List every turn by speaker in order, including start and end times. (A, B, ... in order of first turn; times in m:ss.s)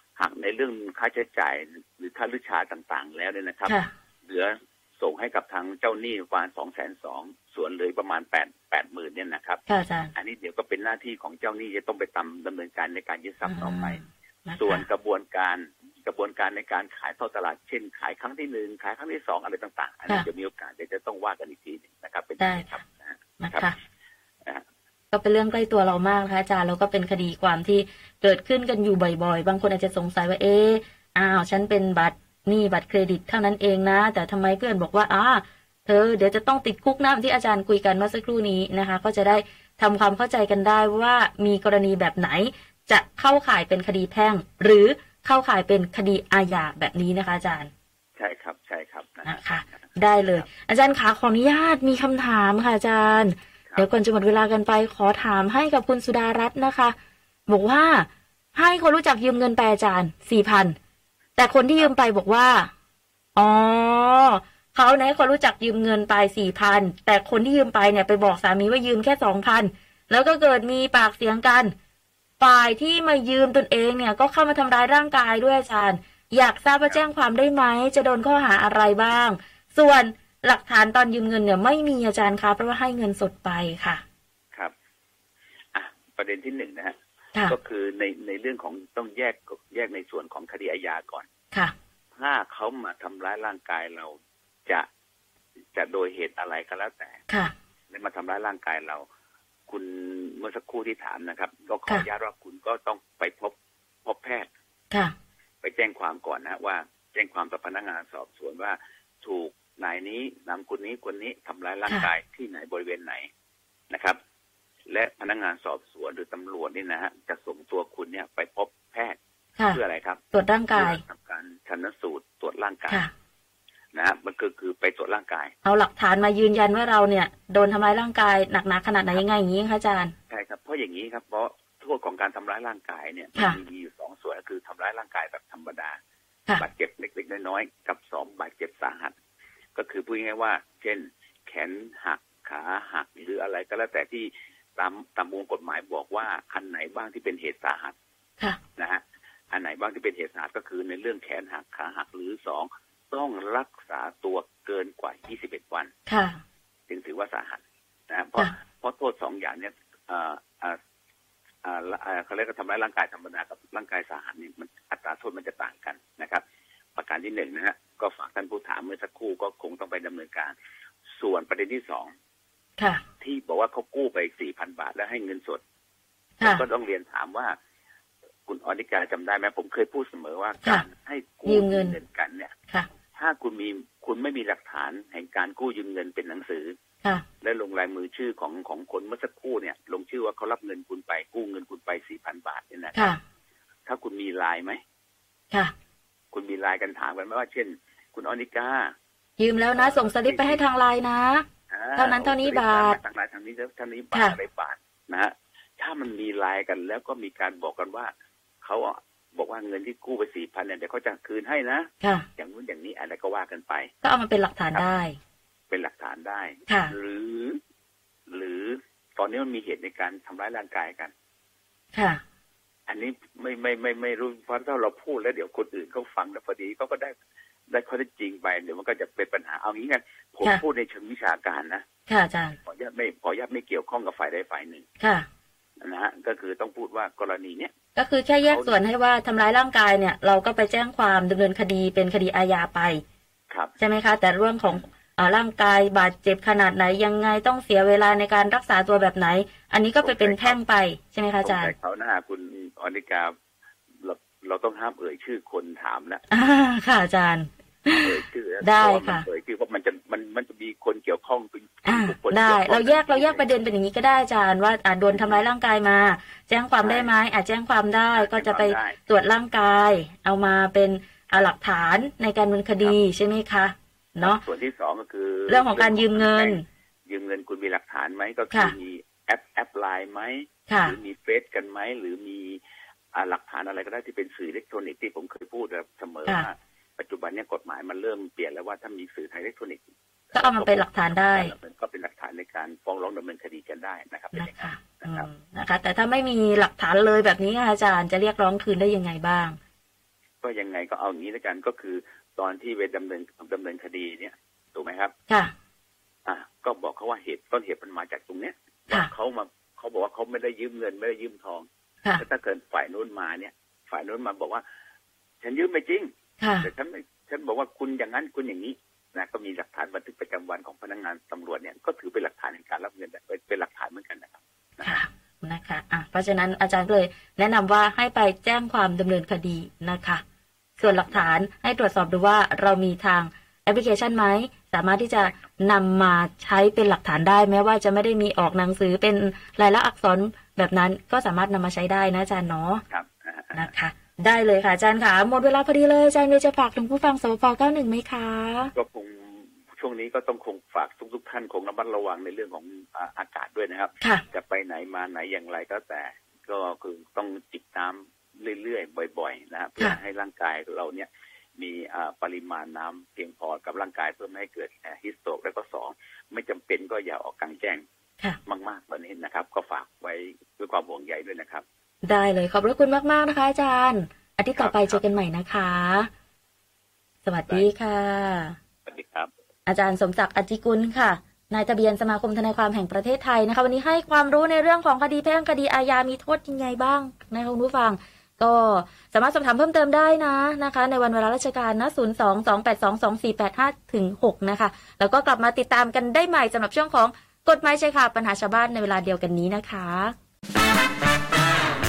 0:00.2-0:09.6 A
0:03.6-0:03.9 B
0:09.7-0:10.1 B
0:10.1-0:14.0 A
0:13.4-0:14.9 B
0:14.6-0:23.7 A
0:22.4-0:22.8 B
0:23.4-0:23.7 B
0:25.1-0:47.7 B
0:48.2-0:50.5 A
0:49.2-0:56.9 B
0:57.5-1:00.8 B
1:01.4-1:02.7 B
1:03.4-1:11.7 B
1:12.4-1:24.0 B
1:25.7-1:31.3 A
1:32.1-1:34.1 A
1:35.7-1:37.2 A
1:37.3-1:37.5 B
1:37.9-1:39.0 A
1:39.7-1:44.5 A
1:45.6-1:53.3 A
1:51.9-1:52.1 B
1:53.9-1:54.2 A
1:54.9-1:59.2 A
1:59.6-2:01.0 B
1:59.7-2:00.2 A
2:00.7-2:03.1 A
2:03.9-2:05.5 A
2:05.6-2:10.1 B
2:10.3-2:16.0 A
2:13.3-2:13.6 B
2:16.6-2:19.1 A
2:19.8-2:27.9 A
2:28.8-2:35.9 A
2:36.1-2:36.4 B
2:36.9-2:40.8 A
2:41.6-2:46.4 A
2:47.0-2:50.5 A
2:51.2-2:52.1 A
2:52.8-2:53.0 B
2:53.2-2:55.6 A
2:56.4-2:56.7 B
2:56.4-2:57.5 A
2:58.5-3:02.6 A
3:00.6-3:00.9 B
3:01.4-3:02.0 B
3:03.1-3:06.8 A
3:07.4-3:13.2 A
3:12.9-3:13.2 B
3:13.8-3:14.8 A
3:16.3-3:18.9 A
3:19.4-3:23.0 B
3:19.7-3:20.6 A
3:21.7-3:28.1 A
3:24.1-3:24.4 B
3:28.6-3:33.9 A
3:32.0-3:32.3 B
3:34.0-3:35.2 B
3:35.7-3:37.6 A
3:36.7-3:36.9 B
3:38.3-3:41.1 A
3:41.9-3:42.2 B
3:42.9-3:47.1 A
3:47.7-3:51.8 A
3:52.1-3:52.6 B
3:52.6-3:54.8 A
3:55.0-3:55.2 B
3:55.8-3:57.7 A
3:57.9-4:03.0 B
3:58.4-3:58.8 A
4:03.8-4:11.7 B
4:10.0-4:10.6 A
4:11.4-4:13.3 A
4:14.0-4:16.2 A
4:16.3-4:19.3 B
4:17.9-4:23.6 A
4:21.8-4:34.4 B
4:25.1-4:25.4 A
4:26.8-4:27.1 A
4:28.1-4:29.0 A
4:34.2-4:42.6 A
4:35.5-4:36.6 B
4:40.7-4:41.0 B
4:43.1-4:55.3 A
4:50.3-4:51.5 B
4:54.3-4:59.6 B
5:00.4-5:05.1 A
5:06.2-5:11.6 A
5:12.2-5:14.6 A
5:15.4-5:16.1 A
5:16.4-5:16.7 B
5:16.6-5:25.0 A
5:24.8-5:30.2 B
5:30.8-5:42.8 B
5:30.8-5:31.4 A
5:42.9-5:43.7 A
5:43.5-5:48.7 B
5:48.7-6:07.8 A
6:08.4-6:11.6 A
6:12.0-6:16.1 B
6:14.6-6:15.1 A
6:17.2-6:18.6 B
6:18.8-6:19.3 A
6:19.6-6:40.1 B